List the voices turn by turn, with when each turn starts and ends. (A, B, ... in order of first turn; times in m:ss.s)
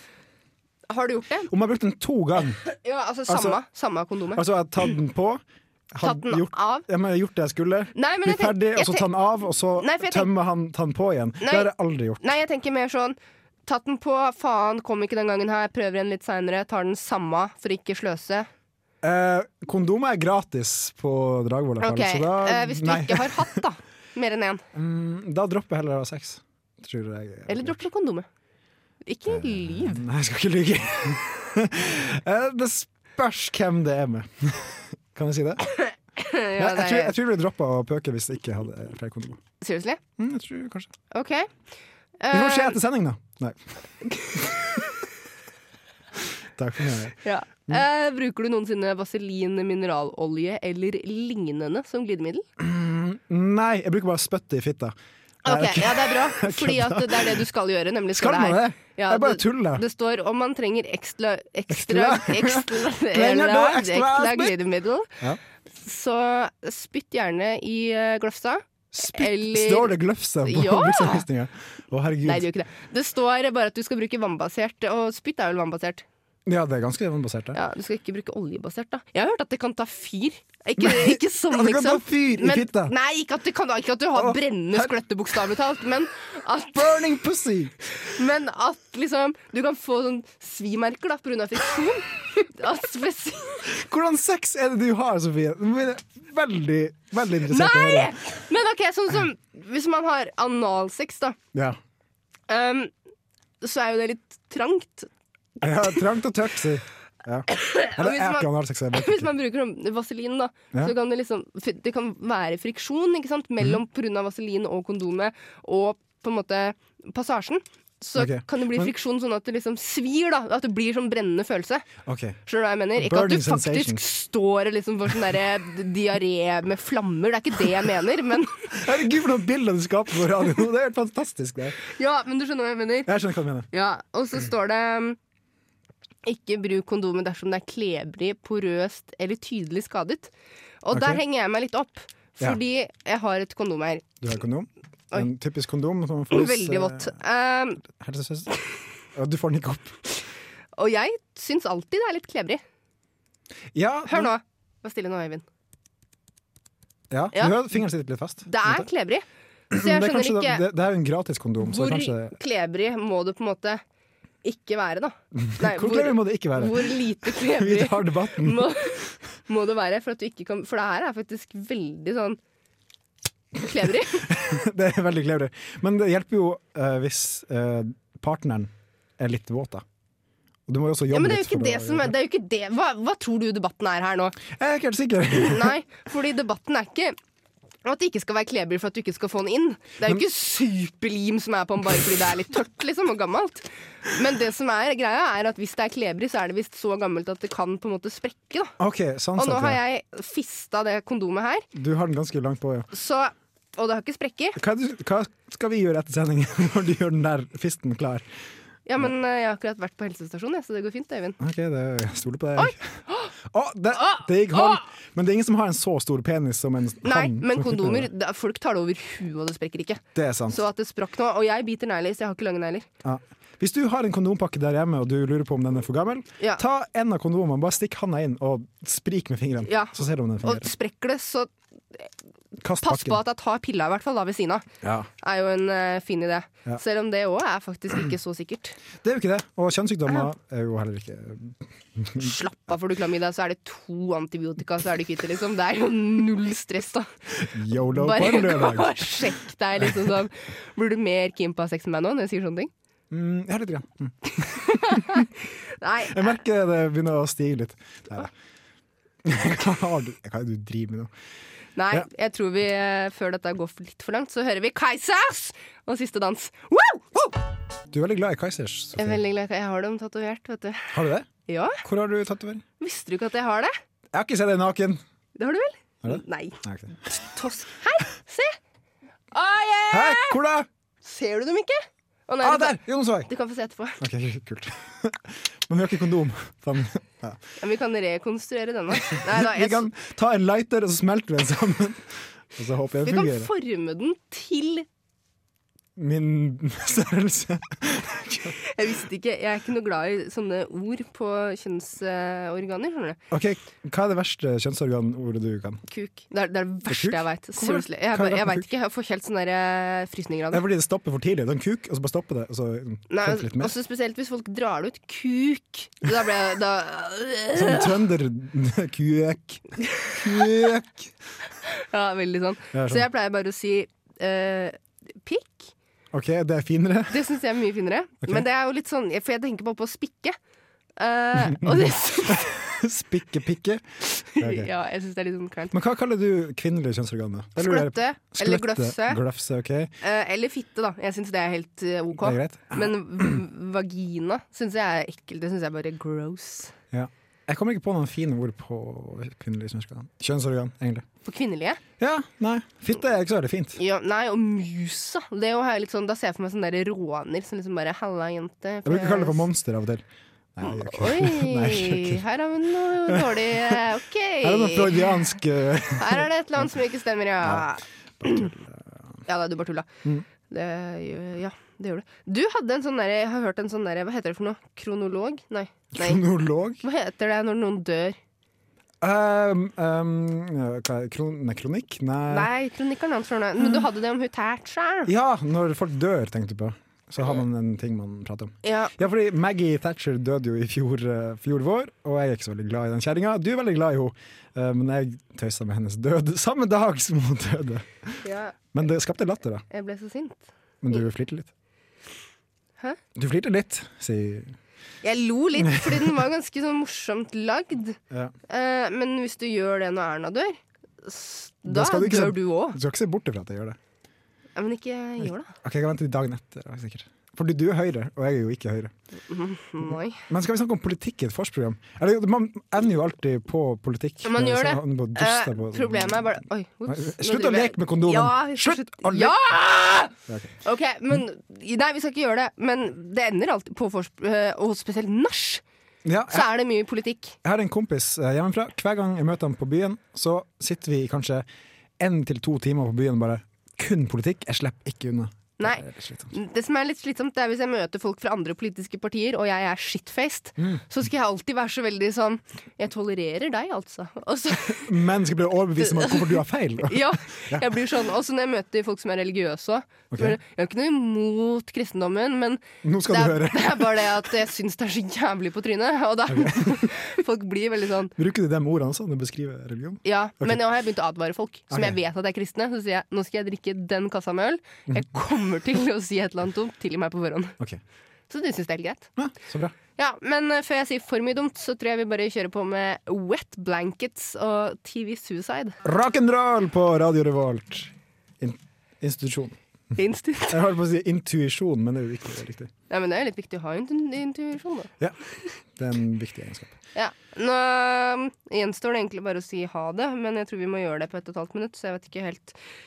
0:00.9-0:01.5 A
0:01.5-0:02.6 B
0:02.6-0:04.4 A
0:03.3-0:03.6 B
0:04.3-0:12.2 B
0:06.0-0:06.9 A
0:07.9-0:09.1 A
0:09.8-0:10.3 A
0:11.4-0:18.5 A
0:19.0-0:23.6 B
0:21.8-0:24.6 A
0:24.7-0:27.8 B
0:27.5-0:28.2 A
0:29.0-0:30.0 A
0:29.3-0:35.7 B
0:35.7-0:37.1 A
0:36.5-0:39.4 B
0:39.6-0:40.0 A
0:40.2-0:40.9 B
0:41.1-0:41.5 A
0:42.2-0:42.8 A
0:42.3-0:43.8 B
0:44.2-0:44.8 A
0:46.6-0:47.8 B
0:47.2-0:52.4 A
0:52.6-0:57.4 B
0:55.4-1:05.2 A
0:58.1-0:59.8 B
1:01.7-1:04.6 B
1:05.8-1:11.2 A
1:08.9-1:12.4 B
1:12.2-1:16.0 A
1:16.4-1:17.6 B
1:17.5-1:27.0 A
1:20.8-1:22.9 B
1:24.1-1:24.9 B
1:26.7-1:27.7 B
1:27.9-1:33.7 A
1:33.6-1:38.2 B
1:37.5-1:41.4 A
1:42.5-1:42.9 A
1:43.6-1:45.1 A
1:45.6-1:49.3 B
1:47.5-2:01.9 A
1:58.2-1:58.9 B
2:02.0-2:02.4 B
2:02.4-2:08.7 A
2:03.0-2:04.0 B
2:08.7-2:11.8 B
2:11.9-2:13.1 A
2:13.1-2:13.7 B
2:13.7-2:15.2 A
2:16.2-2:20.3 A
2:20.8-2:24.1 A
2:20.9-2:21.2 B
2:24.2-2:27.1 B
2:26.3-2:27.8 A
2:27.8-2:28.5 B
2:29.1-2:30.0 B
2:30.8-2:32.6 A
2:33.7-2:34.3 B
2:34.1-2:35.4 A
2:37.1-2:38.9 B
2:38.4-2:40.6 A
2:39.7-2:42.3 B
2:41.6-2:43.8 A
2:44.4-2:52.4 A
2:45.3-2:48.8 B
2:53.5-2:54.3 A
2:54.2-2:59.8 B
3:00.7-3:02.1 B
3:01.1-3:04.4 A
3:04.4-3:05.8 B
3:05.3-3:07.2 A
3:07.8-3:18.7 A
3:18.8-3:19.8 B
3:19.4-3:21.7 A
3:21.7-3:22.9 B
3:22.9-3:24.6 A
3:24.6-3:28.2 B
3:28.8-3:31.4 A
3:31.4-3:38.1 B
3:32.6-3:33.3 A
3:33.9-3:34.8 A
3:37.0-3:42.9 A
3:40.1-3:40.6 B
3:43.0-3:50.7 B
3:49.6-3:52.1 A
3:52.6-3:53.2 B
3:52.8-3:54.6 A
3:54.8-3:55.1 B
3:55.2-3:58.8 A
3:59.0-4:02.3 B
4:02.2-4:07.1 A
4:07.4-4:09.3 B
4:07.9-4:12.7 A
4:09.8-4:10.1 B
4:13.1-4:15.3 B
4:14.4-4:16.4 A
4:16.1-4:18.3 B
4:19.2-4:21.1 B
4:21.8-4:27.4 A
4:27.9-4:29.2 B
4:29.0-4:31.8 A
4:30.9-4:31.3 B
4:31.8-4:32.6 B
4:32.8-4:33.7 A
4:34.1-4:35.0 B
4:35.4-4:38.6 A
4:36.0-4:37.1 B
4:39.3-4:40.4 A
4:39.9-4:40.7 B
4:41.0-4:44.0 A
4:42.4-4:43.3 B
4:44.0-4:47.4 B
4:47.6-4:49.9 A
4:49.0-4:53.5 B
4:53.0-4:54.9 A
4:56.0-4:58.6 B
4:58.6-5:03.2 A
5:03.3-5:05.8 B
5:05.9-5:10.6 A
5:06.9-5:08.6 B
5:10.5-5:13.7 B
5:13.1-5:18.0 A
5:17.6-5:21.1 B
5:20.0-5:20.6 A
5:21.6-5:25.7 A
5:22.7-5:23.0 B
5:26.1-5:27.3 B
5:27.1-5:30.4 A
5:31.0-5:32.6 A
5:31.5-5:33.8 B
5:34.2-5:35.8 A
5:34.4-5:34.7 B
5:35.7-5:39.9 B
5:37.6-5:39.2 A
5:40.0-5:46.7 A
5:42.2-5:43.4 B
5:46.9-5:51.0 B
5:51.2-5:51.8 A
5:52.0-5:53.8 B
5:53.8-5:59.4 A
5:58.8-6:02.2 B
6:00.6-6:05.3 A
6:03.1-6:03.8 B
6:04.4-6:06.3 B
6:05.9-6:08.5 A
6:07.4-6:07.7 B
6:08.2-6:09.0 B
6:09.2-6:16.2 A
6:15.9-6:16.8 B
6:16.8-6:18.2 A
6:19.0-6:22.5 B
6:22.3-6:25.1 A
6:23.6-6:23.8 B
6:25.1-6:39.6 B
6:28.6-6:29.0 A
6:38.2-6:38.6 A
6:39.7-6:41.0 A
6:40.8-6:41.5 B
6:43.2-6:44.5 B
6:45.0-6:52.8 A
6:45.6-6:46.0 B
6:51.6-6:53.8 B
6:54.6-6:55.5 A
6:55.2-6:58.9 B
6:59.3-7:00.2 A
7:00.3-7:06.4 B
7:04.2-7:15.6 A
7:06.9-7:09.4 B
7:16.0-7:16.5 B
7:16.3-7:17.4 A
7:17.4-7:21.4 B
7:22.0-7:26.3 B
7:25.6-7:35.0 A
7:34.7-7:37.7 B
7:35.8-7:48.1 A
7:40.1-7:40.4 B
7:42.8-7:44.2 B
7:46.3-7:46.9 B
7:48.2-7:50.6 B
7:50.0-7:57.6 A
7:51.7-7:52.0 B
7:58.3-7:59.1 A
7:59.2-7:59.7 B
8:00.0-8:05.8 A
8:05.8-8:09.6 B
8:09.9-8:10.6 A
8:10.5-8:12.7 B
8:12.9-8:14.9 A
8:15.8-8:16.8 B
8:16.9-8:22.6 A